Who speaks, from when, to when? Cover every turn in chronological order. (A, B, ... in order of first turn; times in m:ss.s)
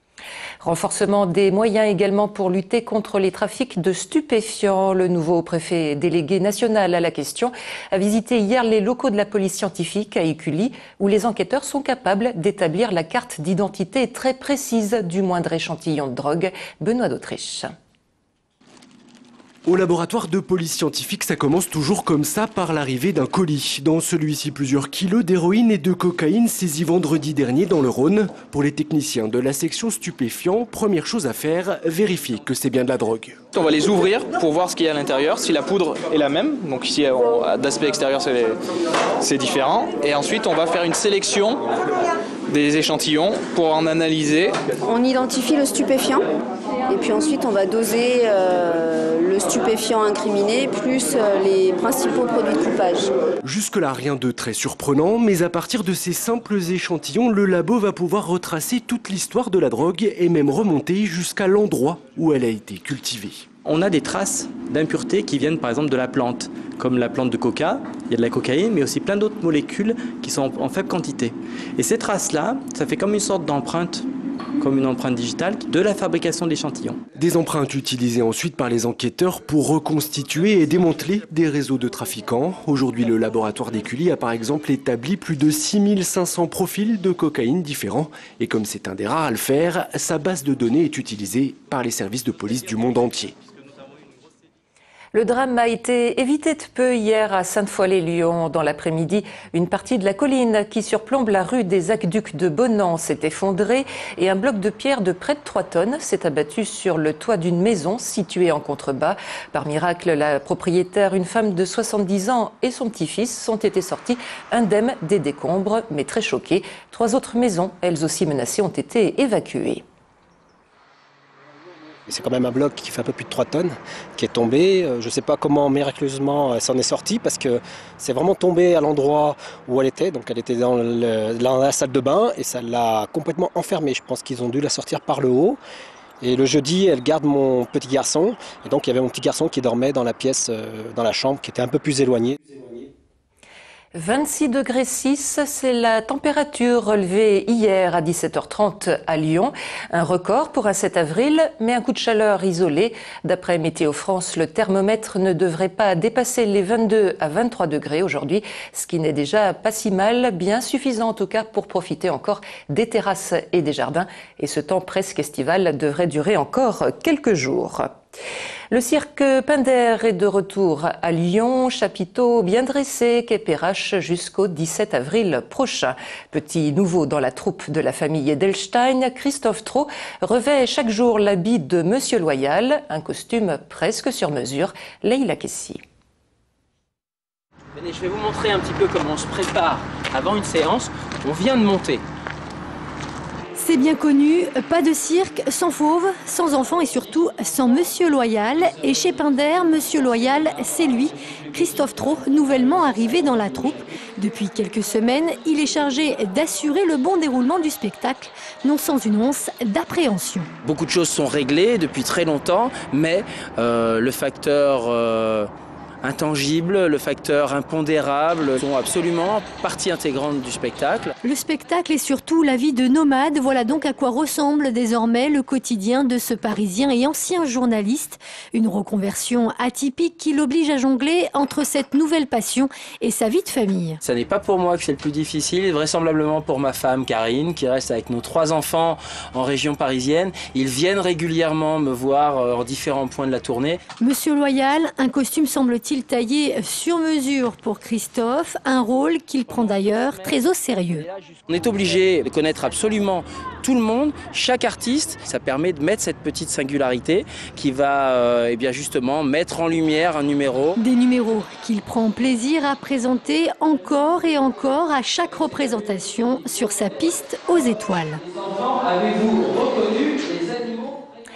0:00.6-0:17.7 A
0:19.6-0:33.4 B
0:33.6-0:38.5 C
0:39.2-0:41.5 C
0:42.5-0:44.5 C
0:44.8-0:46.2 D
0:46.9-0:53.1 D
0:53.4-1:03.4 B
1:03.6-1:14.0 E
1:14.6-1:17.0 E
1:17.2-1:33.3 B
1:35.1-1:59.8 A
2:02.1-2:15.6 F
2:16.2-2:22.9 F
2:23.9-2:47.9 A
2:48.7-3:05.8 A
3:07.7-3:12.0 G
3:13.6-3:30.4 H
3:13.8-3:16.1 A
3:17.0-3:17.3 A
3:17.9-3:19.6 A
3:20.4-3:20.9 A
3:21.6-3:23.8 A
3:25.2-3:25.9 A
3:30.6-3:35.5 G
3:36.0-3:41.1 G
3:41.2-3:53.9 H
3:54.0-4:03.8 G
4:04.0-4:11.0 H
4:09.6-4:10.0 A
4:11.5-4:20.8 G
4:20.8-4:28.1 H
4:24.1-4:24.6 A
4:26.8-4:27.2 A
4:28.2-4:31.0 G